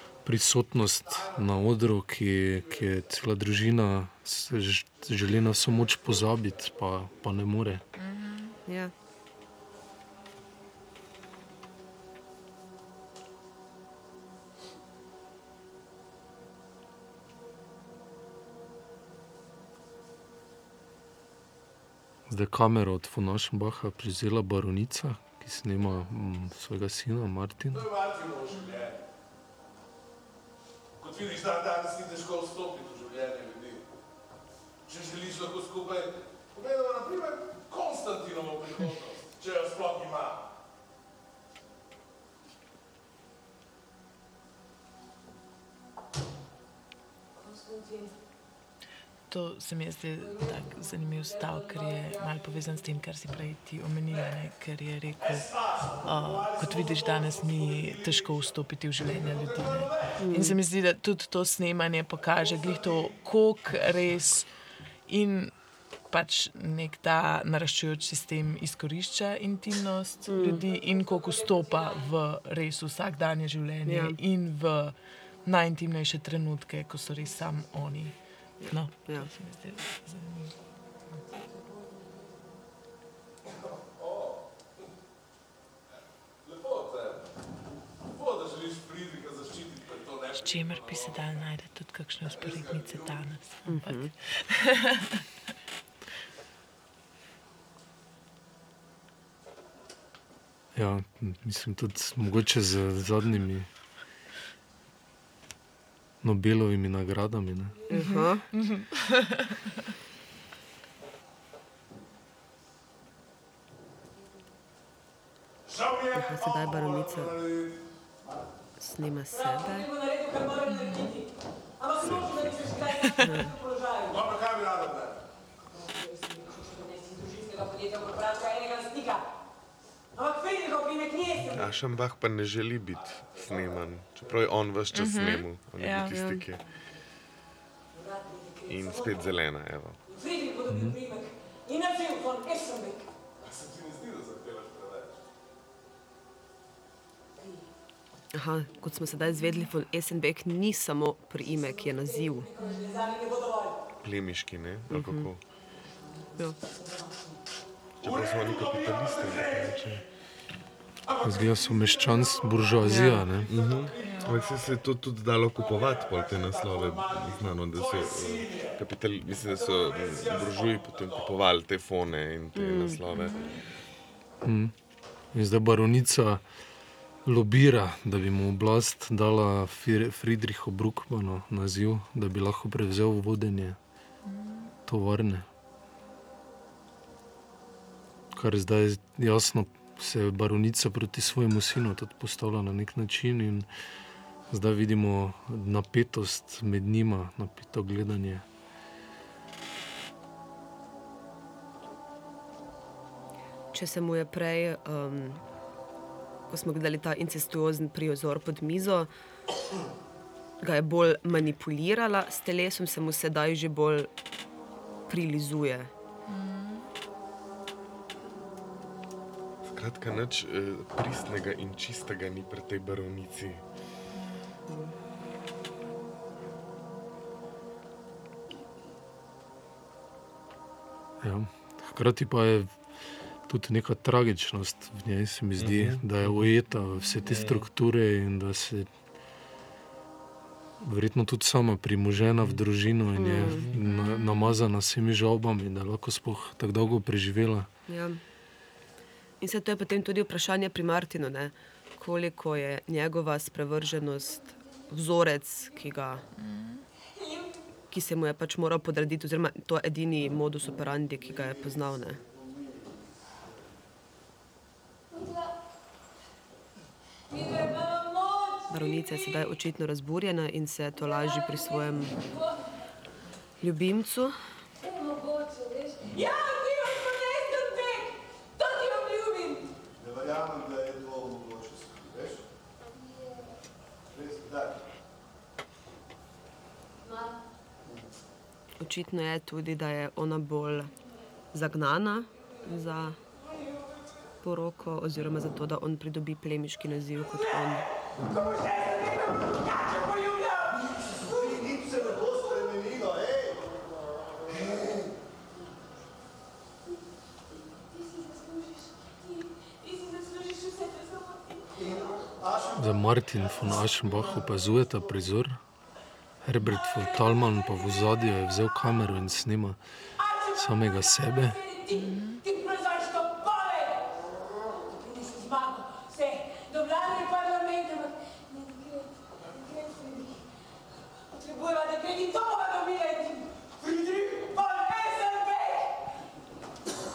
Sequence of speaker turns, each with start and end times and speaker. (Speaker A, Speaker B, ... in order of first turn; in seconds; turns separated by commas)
Speaker A: 0.2-7.8, Speaker B: 8.0-8.6, Speaker C: 8.7-8.9, Speaker A: 22.3-27.9, Speaker D: 27.7-29.0, Speaker D: 31.0-33.8, Speaker D: 34.9-40.4, Speaker E: 47.4-48.1, Speaker B: 49.3-55.5, Speaker E: 50.2-52.4, Speaker D: 55.2-60.2, Speaker B: 56.0-64.5, Speaker C: 60.2-60.6, Speaker D: 62.4-63.0, Speaker B: 65.1-65.5, Speaker B: 66.1-78.1, Speaker C: 70.3-70.6, Speaker E: 70.5-72.1, Speaker C: 73.8-74.2, Speaker C: 78.6-79.3, Speaker B: 78.7-80.5, Speaker E: 81.3-82.4, Speaker D: 83.6-84.4, Speaker D: 86.4-87.2, Speaker D: 88.1-91.5, Speaker B: 90.3-95.2, Speaker D: 92.2-93.3, Speaker C: 93.7-94.1, Speaker A: 100.7-103.7, Speaker A: 106.2-107.9, Speaker C: 107.9-108.5, Speaker B: 107.9-109.8, Speaker E: 107.9-108.2, Speaker D: 115.7-117.8, Speaker C: 116.1-117.4, Speaker C: 118.8-119.9, Speaker E: 119.3-124.2, Speaker B: 120.7-121.2, Speaker F: 122.0-122.8, Speaker B: 123.0-123.3, Speaker C: 123.2-123.6, Speaker D: 124.1-125.2, Speaker E: 125.8-129.2, Speaker E: 130.1-131.6, Speaker F: 131.5-136.6, Speaker B: 134.9-136.4, Speaker C: 136.1-136.4, Speaker E: 137.9-139.3, Speaker F: 138.7-140.0, Speaker E: 140.1-143.1, Speaker A: 140.7-141.0, Speaker D: 143.4-145.2, Speaker C: 148.3-152.5, Speaker E: 152.0-153.8, Speaker B: 152.6-153.1, Speaker F: 154.0-155.4, Speaker C: 154.9-155.3, Speaker F: 158.0-160.0, Speaker D: 158.0-160.0, Speaker D: 161.1-164.7, Speaker A: 161.2-163.5, Speaker C: 162.8-163.3, Speaker F: 163.4-173.4, Speaker B: 163.9-164.4, Speaker D: 165.5-171.3, Speaker C: 172.5-173.0, Speaker B: 173.1-173.6, Speaker A: 174.4-174.7, Speaker A: 175.3-176.4, Speaker A: 177.2-183.8, Speaker B: 184.2-184.7, Speaker A: 184.8-185.5, Speaker A: 188.3-193.7, Speaker A: 194.5-198.4, Speaker C: 203.7-205.4, Speaker C: 206.5-209.1, Speaker C: 210.6-214.1, Speaker C: 215.1-215.9, Speaker B: 216.3-216.8, Speaker F: 219.6-223.6, Speaker C: 224.7-224.9, Speaker A: 231.2-232.7, Speaker A: 233.5-238.9, Speaker F: 235.6-236.5, Speaker F: 237.2-237.7, Speaker A: 240.8-247.7, Speaker C: 243.2-243.7, Speaker F: 243.3-243.8, Speaker B: 243.8-244.6, Speaker C: 247.9-248.2, Speaker C: 249.4-256.2, Speaker B: 256.4-256.8, Speaker E: 257.2-257.5, Speaker C: 257.9-262.2, Speaker G: 261.2-263.1, Speaker E: 265.1-265.5, Speaker E: 267.3-269.5, Speaker C: 268.7-272.1, Speaker E: 271.0-272.7, Speaker C: 273.6-274.4, Speaker E: 274.8-279.7, Speaker G: 280.0-282.4, Speaker E: 282.9-283.5, Speaker G: 284.1-284.8, Speaker E: 287.0-287.4, Speaker C: 288.8-290.9, Speaker C: 291.5-293.2, Speaker C: 294.4-297.8, Speaker E: 298.2-300.9, Speaker G: 300.7-303.6, Speaker E: 307.7-311.7, Speaker G: 311.8-312.9, Speaker A: 312.8-315.6, Speaker A: 316.4-319.8, Speaker E: 320.2-324.2, Speaker A: 320.5-321.6, Speaker B: 321.9-322.4, Speaker E: 324.7-330.4, Speaker E: 331.3-336.0